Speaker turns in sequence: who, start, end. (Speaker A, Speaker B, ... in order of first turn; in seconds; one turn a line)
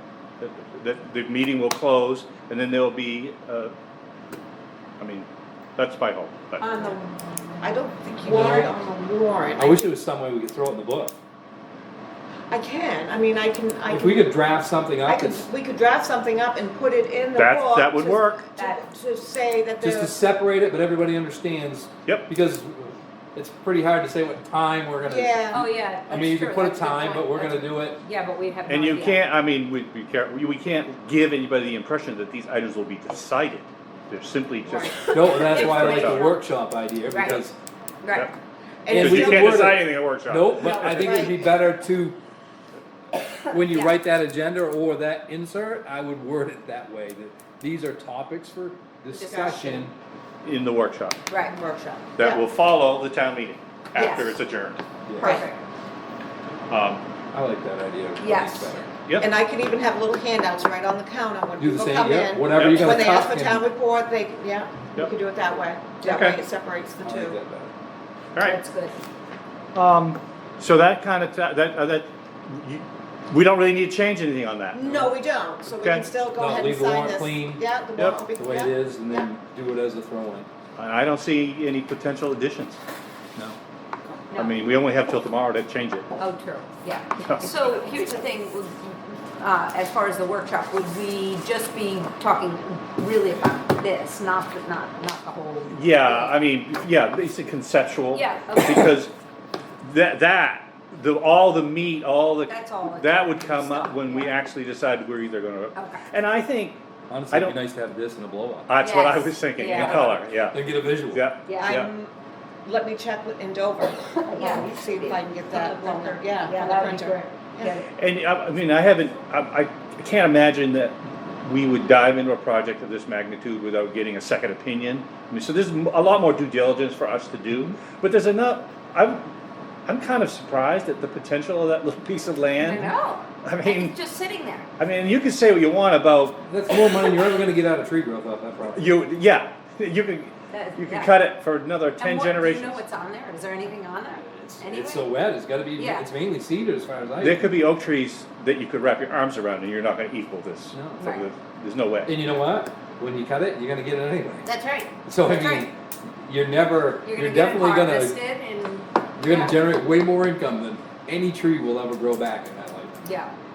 Speaker A: 0.4-3.7
Speaker A: 5.0-6.7
Speaker B: 6.6-8.8
Speaker C: 7.6-9.9
Speaker D: 9.6-11.2
Speaker C: 12.5-14.4
Speaker D: 13.9-15.5
Speaker C: 15.0-20.1
Speaker A: 17.4-18.5
Speaker B: 18.5-18.8
Speaker D: 19.8-28.0
Speaker C: 25.0-25.6
Speaker B: 25.5-29.2
Speaker A: 28.7-36.2
Speaker C: 34.6-35.1
Speaker B: 34.7-36.4
Speaker D: 35.1-37.5
Speaker B: 37.1-37.5
Speaker B: 38.0-38.3
Speaker C: 38.8-39.7
Speaker D: 38.9-42.2
Speaker A: 38.9-41.2
Speaker B: 40.6-41.2
Speaker C: 40.9-41.4
Speaker D: 43.5-49.9
Speaker B: 43.7-44.0
Speaker C: 49.1-49.7
Speaker B: 49.1-49.9
Speaker A: 50.4-51.2
Speaker B: 51.3-51.6
Speaker C: 51.4-52.4
Speaker A: 52.2-54.8
Speaker B: 54.0-54.4
Speaker D: 55.0-55.4
Speaker C: 55.2-55.5
Speaker B: 55.2-55.6
Speaker A: 56.7-57.0
Speaker D: 57.3-58.9
Speaker B: 58.2-58.9
Speaker C: 59.2-67.4
Speaker D: 61.6-63.6
Speaker A: 62.5-63.2
Speaker A: 66.0-66.4
Speaker D: 67.0-67.7
Speaker A: 68.3-68.6
Speaker B: 68.4-69.0
Speaker A: 69.7-75.0
Speaker C: 74.7-79.3
Speaker A: 75.7-76.1
Speaker D: 76.3-77.6
Speaker A: 78.0-78.2
Speaker D: 78.3-80.5
Speaker A: 80.8-82.8
Speaker B: 84.3-84.6
Speaker A: 84.3-86.0
Speaker B: 86.2-96.3
Speaker A: 87.2-87.5
Speaker C: 87.4-88.2
Speaker A: 95.7-99.1
Speaker B: 98.1-98.9
Speaker A: 99.8-107.6
Speaker B: 102.5-104.3
Speaker B: 105.7-106.0
Speaker D: 107.1-108.7
Speaker A: 108.7-111.9
Speaker B: 108.8-110.3
Speaker D: 109.8-111.3
Speaker B: 111.5-111.8
Speaker C: 111.6-112.1
Speaker C: 112.6-117.8
Speaker B: 114.2-117.9
Speaker A: 118.0-129.3
Speaker A: 129.8-132.9
Speaker B: 132.6-134.7
Speaker A: 133.4-133.9
Speaker A: 134.8-136.4
Speaker D: 136.4-139.0
Speaker A: 138.7-142.8
Speaker B: 140.5-141.2
Speaker B: 142.0-145.1
Speaker D: 144.1-147.5
Speaker B: 145.8-146.1
Speaker A: 147.2-152.2
Speaker D: 150.7-151.0
Speaker B: 151.0-151.3
Speaker D: 152.0-154.5
Speaker B: 154.4-155.7
Speaker D: 155.0-158.2
Speaker B: 157.0-159.6
Speaker D: 159.2-163.0
Speaker B: 163.0-163.3